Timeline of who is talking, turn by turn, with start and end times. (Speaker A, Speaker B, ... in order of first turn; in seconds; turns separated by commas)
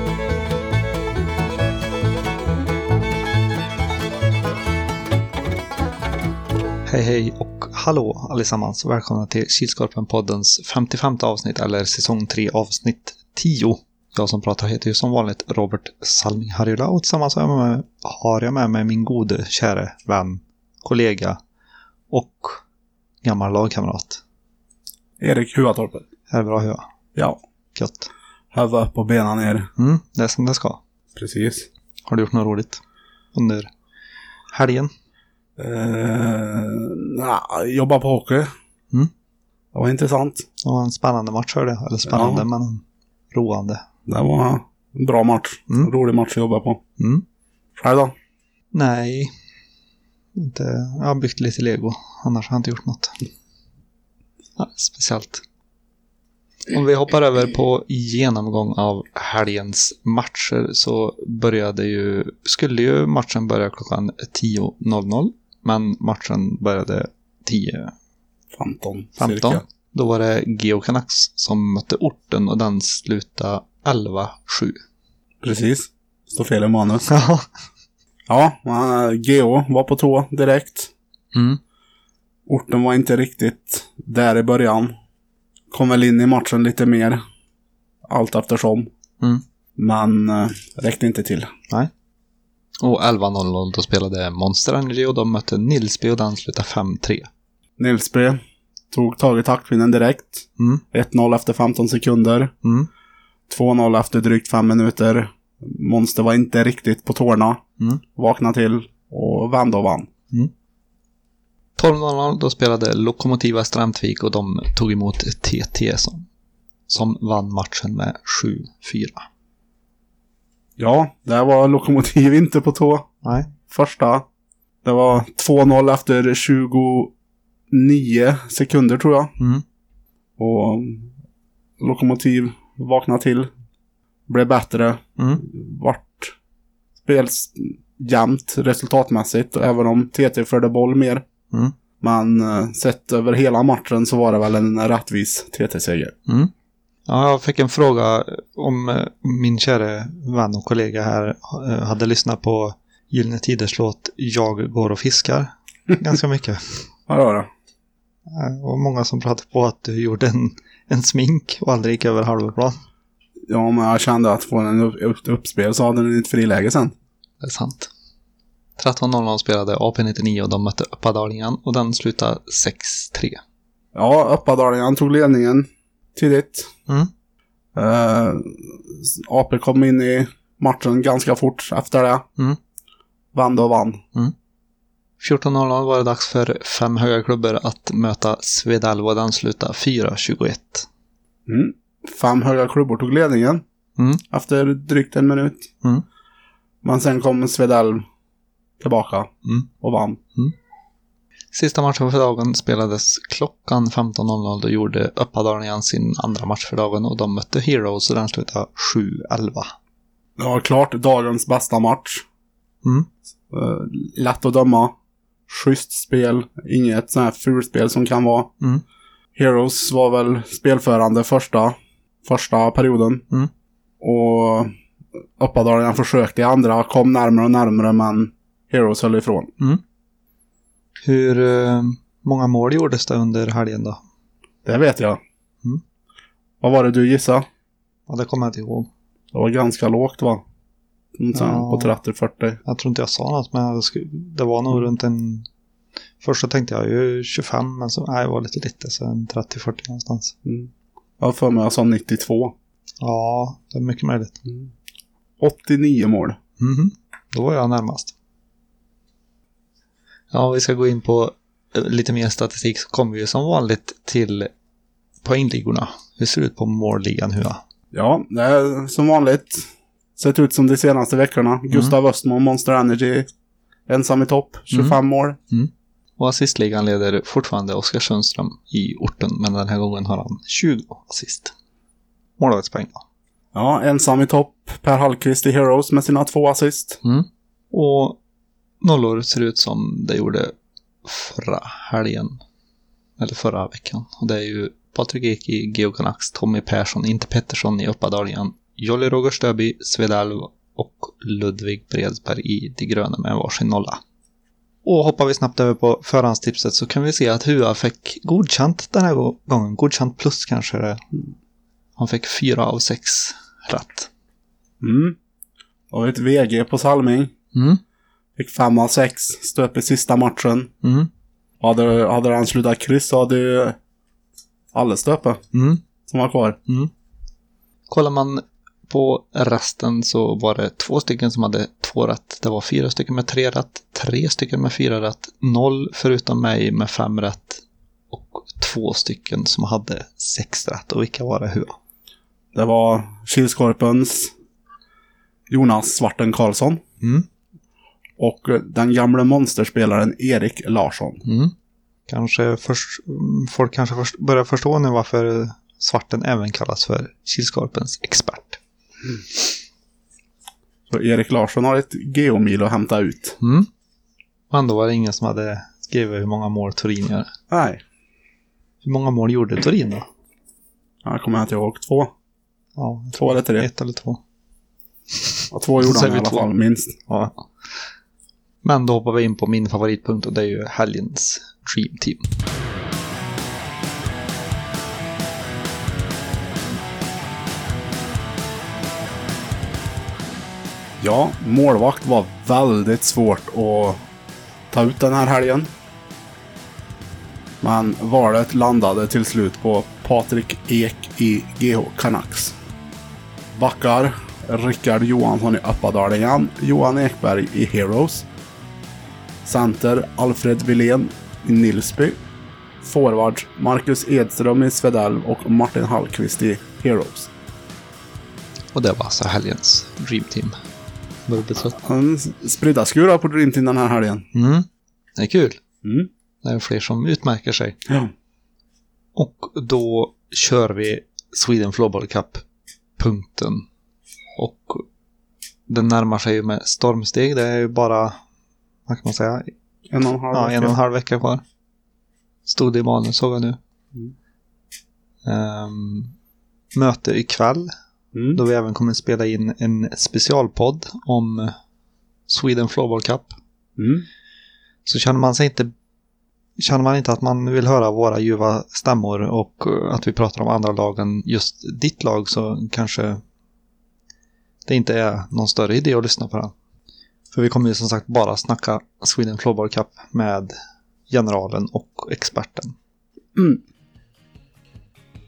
Speaker A: 6.9-21.4, Speaker A: 22.1-22.6, Speaker A: 23.2-24.2, Speaker B: 25.2-26.1, Speaker A: 26.3-26.8, Speaker A: 27.7-28.1, Speaker B: 28.5-29.7, Speaker A: 29.8-30.8, Speaker B: 31.1-31.7, Speaker A: 32.1-32.8, Speaker A: 33.3-33.7, Speaker A: 34.5-34.9, Speaker B: 35.6-38.5, Speaker B: 39.7-40.5, Speaker A: 40.6-43.8, Speaker B: 42.1-42.5, Speaker B: 44.1-46.8, Speaker A: 47.0-47.2, Speaker B: 47.8-48.1, Speaker A: 48.7-49.3, Speaker A: 50.4-53.1, Speaker A: 54.6-55.4, Speaker A: 56.7-67.9, Speaker B: 68.5-69.6, Speaker A: 69.2-74.8, Speaker B: 75.4-77.1, Speaker A: 77.1-77.4, Speaker B: 78.3-80.9, Speaker A: 81.3-81.6, Speaker B: 82.5-84.9, Speaker B: 85.7-87.2, Speaker B: 88.1-88.9, Speaker B: 89.8-91.5, Speaker A: 92.8-97.3, Speaker B: 97.8-98.4, Speaker B: 98.9-102.5, Speaker A: 100.6-100.8, Speaker A: 102.6-102.9, Speaker B: 103.5-107.6, Speaker B: 108.2-110.1, Speaker A: 111.8-116.3, Speaker A: 116.9-119.2, Speaker B: 120.8-123.1, Speaker A: 123.2-123.5, Speaker B: 123.7-124.2, Speaker B: 124.8-127.1, Speaker B: 127.7-129.3, Speaker B: 130.4-131.1, Speaker B: 131.8-133.5, Speaker B: 134.3-136.3, Speaker A: 135.2-135.4, Speaker B: 137.0-141.2, Speaker A: 141.5-141.8, Speaker B: 142.0-146.1, Speaker A: 147.1-156.9, Speaker B: 157.1-157.5, Speaker A: 158.3-162.8, Speaker B: 163.5-166.9, Speaker A: 167.4-167.9, Speaker A: 168.8-173.4, Speaker B: 173.9-176.7, Speaker B: 177.8-182.2, Speaker B: 183.3-184.0, Speaker A: 185.2-190.9, Speaker B: 191.5-193.6, Speaker A: 194.0-194.2, Speaker B: 194.3-195.7, Speaker B: 196.8-198.0, Speaker B: 198.8-199.3, Speaker A: 199.4-199.7, Speaker B: 199.8-200.2, Speaker A: 201.5-209.8, Speaker B: 210.4-212.2, Speaker A: 212.8-213.1, Speaker B: 213.5-214.9, Speaker B: 215.5-218.5, Speaker B: 219.3-223.3, Speaker B: 224.0-224.7, Speaker B: 225.4-229.5, Speaker A: 231.0-234.0, Speaker B: 234.7-235.2, Speaker B: 236.6-237.4, Speaker A: 238.1-238.9, Speaker B: 239.3-240.4, Speaker B: 241.2-242.6, Speaker A: 241.3-242.0, Speaker A: 242.7-245.5, Speaker A: 246.2-250.3, Speaker B: 250.4-252.5, Speaker A: 253.0-254.4, Speaker B: 255.4-256.4, Speaker A: 256.6-258.1, Speaker A: 260.3-264.5, Speaker A: 265.2-267.6, Speaker B: 267.9-269.7, Speaker B: 270.2-273.3, Speaker B: 273.9-275.4, Speaker A: 274.7-275.0, Speaker A: 275.5-281.5, Speaker A: 282.4-283.0, Speaker B: 283.5-287.0, Speaker A: 287.0-288.2, Speaker A: 288.8-290.5, Speaker A: 291.1-292.4, Speaker A: 293.2-304.0, Speaker A: 304.8-311.0, Speaker A: 312.0-314.1, Speaker B: 314.8-315.2, Speaker B: 315.9-317.3, Speaker A: 317.5-317.8, Speaker B: 318.4-320.7, Speaker A: 320.8-321.1, Speaker B: 321.6-323.8, Speaker B: 324.7-325.4, Speaker A: 325.5-325.8, Speaker B: 326.1-326.6, Speaker A: 327.9-341.8, Speaker B: 342.5-344.3, Speaker B: 345.5-346.8, Speaker A: 347.0-347.3, Speaker B: 348.2-351.2, Speaker A: 351.2-351.5, Speaker A: 352.1-358.6, Speaker B: 360.9-363.4, Speaker A: 363.4-363.7, Speaker A: 364.5-367.3, Speaker B: 367.5-367.8, Speaker A: 368.8-370.0, Speaker B: 371.1-372.1, Speaker A: 372.8-374.2, Speaker B: 373.2-373.7, Speaker B: 375.5-377.0, Speaker A: 375.8-376.5, Speaker A: 377.1-377.5, Speaker A: 378.6-382.2, Speaker B: 391.0-394.0, Speaker B: 394.7-395.7, Speaker B: 397.6-402.6, Speaker B: 403.6-408.3, Speaker B: 409.4-412.2, Speaker B: 412.8-417.3, Speaker A: 418.7-420.5, Speaker A: 421.3-421.8, Speaker B: 421.7-424.3, Speaker A: 424.3-425.6, Speaker B: 425.8-426.1, Speaker A: 426.4-427.8, Speaker A: 429.1-432.4, Speaker A: 433.0-433.6, Speaker A: 434.4-434.8, Speaker A: 435.7-438.1, Speaker A: 438.9-439.5, Speaker B: 439.9-440.8, Speaker A: 440.3-441.4, Speaker A: 442.4-443.6, Speaker A: 445.2-446.1, Speaker A: 446.7-447.7, Speaker B: 448.1-448.4, Speaker A: 448.3-451.5, Speaker A: 452.3-453.3, Speaker B: 453.8-454.1, Speaker A: 454.9-455.7, Speaker A: 456.6-463.2, Speaker A: 464.6-466.5, Speaker A: 467.3-470.5, Speaker A: 471.1-472.8, Speaker B: 473.4-473.6